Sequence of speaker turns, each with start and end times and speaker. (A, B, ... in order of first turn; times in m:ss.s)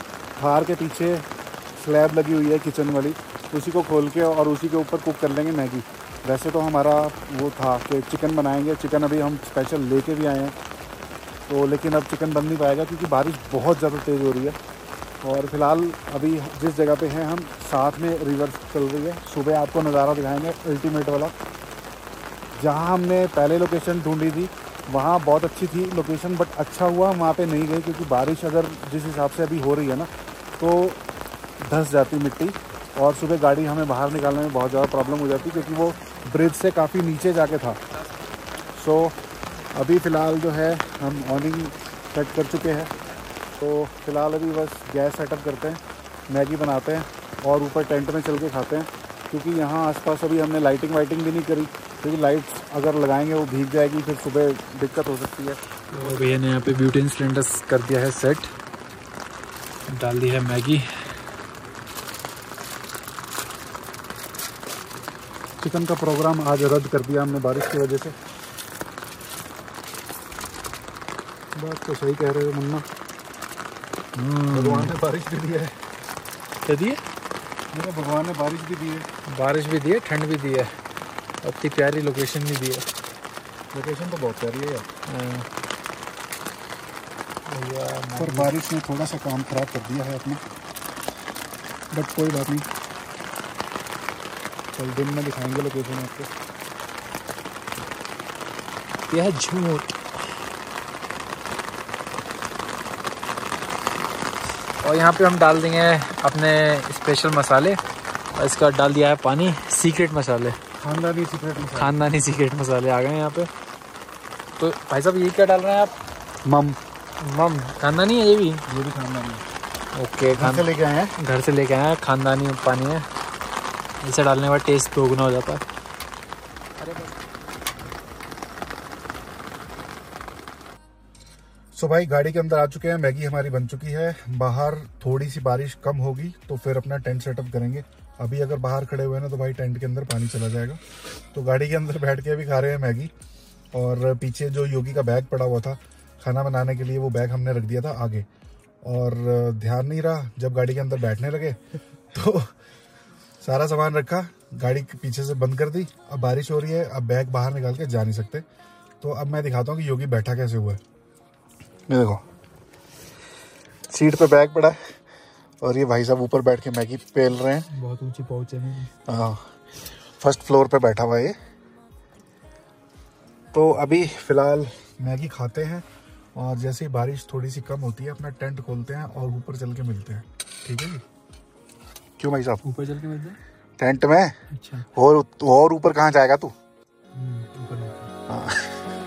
0:00.4-0:10.6 A
0:11.5-0:14.6 A
0:15.2-0:21.3 A
0:22.6-0:31.0 A
0:31.6-0:37.8 A
0:38.7-0:39.2 A
0:39.7-0:42.9 A
0:43.6-0:56.4 A
0:55.9-0:58.5 B
0:59.9-1:00.9 B
1:05.6-1:08.1 A
1:11.6-1:12.9 A
1:14.1-1:15.0 B
1:14.5-1:15.8 A
1:16.6-1:17.0 B
1:17.7-1:19.1 A
1:19.3-1:20.8 B
1:21.4-1:22.9 B
1:23.7-1:24.9 A
1:25.1-1:25.5 B
1:27.4-1:28.5 B
1:28.2-1:30.4 A
1:31.9-1:32.7 A
1:34.7-1:36.3 A
1:39.1-1:39.9 B
1:44.8-1:47.8 B
1:48.4-1:50.6 B
1:50.8-1:52.0 A
1:51.8-1:53.5 B
1:54.6-1:55.9 B
1:56.4-1:56.8 A
1:57.2-1:58.6 B
1:58.7-1:59.5 A
1:59.9-2:03.1 B
2:00.3-2:01.1 A
2:04.0-2:05.6 B
2:06.8-2:07.1 B
2:11.7-2:20.8 A
2:21.3-2:23.1 A
2:23.7-2:28.3 A
2:28.8-2:31.6 A
2:32.1-2:32.5 A
2:33.4-2:38.4 A
2:39.0-2:40.8 A
2:41.9-2:42.2 A
2:43.9-2:44.8 A
2:45.6-2:47.7 A
2:47.7-2:48.9 B
2:49.1-2:51.4 A
2:53.5-3:01.0 A
3:02.2-3:02.6 A
3:02.6-3:03.4 B
3:03.8-3:06.5 A
3:04.5-3:04.9 B
3:07.1-3:08.1 B
3:08.3-3:08.8 A